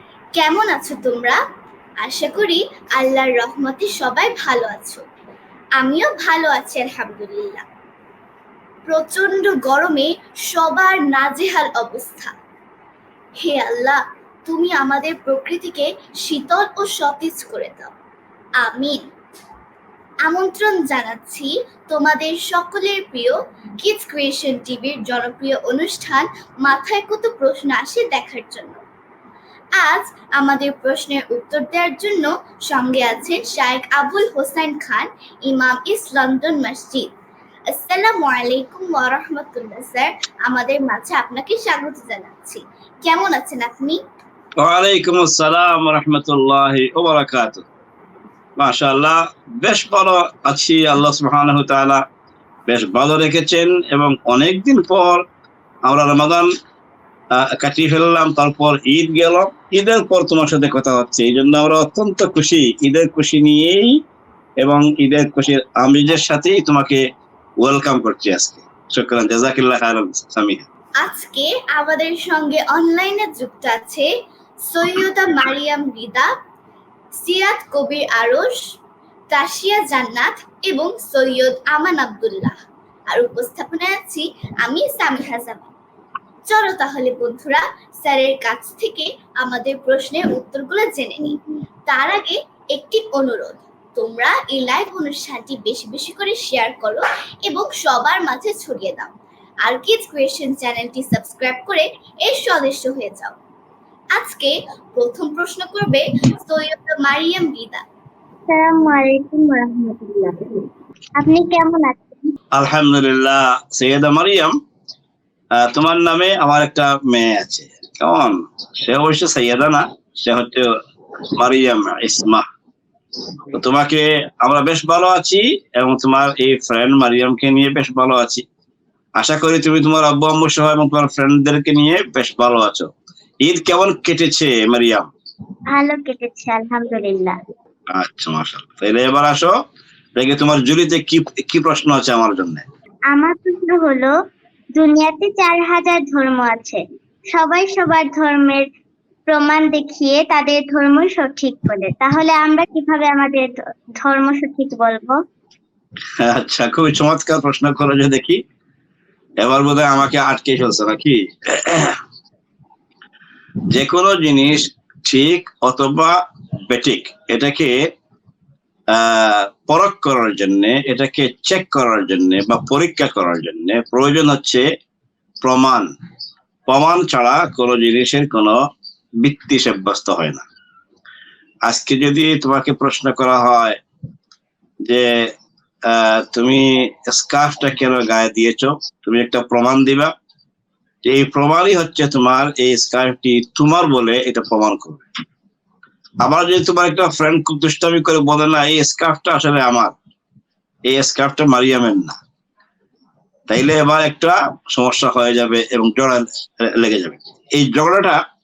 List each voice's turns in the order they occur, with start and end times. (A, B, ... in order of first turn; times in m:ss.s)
0:00.3-0:01.4 A
0:02.0-0:05.0 A
0:05.8-0:07.6 A
0:08.9-0:12.3 A
0:13.4-0:17.9 A
0:18.6-0:19.1 A
0:20.2-0:28.8 A
0:29.8-0:37.1 A
0:37.7-0:44.0 A
0:44.6-0:47.6 B
0:48.6-0:52.0 B
0:52.7-0:55.2 B
0:55.9-0:56.5 B
0:57.4-1:03.9 B
1:04.6-1:07.0 B
1:07.6-1:10.6 B
1:11.0-1:14.1 A
1:14.7-1:16.3 A
1:17.2-1:18.6 A
1:19.3-1:22.6 A
1:23.1-1:25.7 A
1:26.5-1:43.4 A
1:44.1-1:47.8 A
1:48.5-1:50.4 C
1:51.2-1:52.1 C
1:52.5-1:54.5 B
1:55.6-2:00.7 B
2:01.3-2:02.4 B
2:03.5-2:08.4 B
2:09.2-2:12.9 B
2:13.4-2:15.1 B
2:15.7-2:17.4 C
2:17.9-2:19.5 B
2:20.2-2:22.6 B
2:23.1-2:24.1 C
2:24.8-2:26.8 C
2:27.3-2:28.6 C
2:29.3-2:35.2 C
2:36.2-2:38.4 B
2:39.4-2:42.0 B
2:43.7-2:46.2 B
2:46.7-2:47.7 B
2:48.9-2:54.6 B
2:55.4-2:55.9 B
2:56.7-2:58.6 B
2:59.2-3:00.4 B
3:01.6-3:03.8 B
3:04.9-3:05.3 B
3:05.9-3:10.1 B
3:11.0-3:15.0 B
3:16.2-3:19.9 B
3:20.9-3:22.2 B
3:23.5-3:28.2 B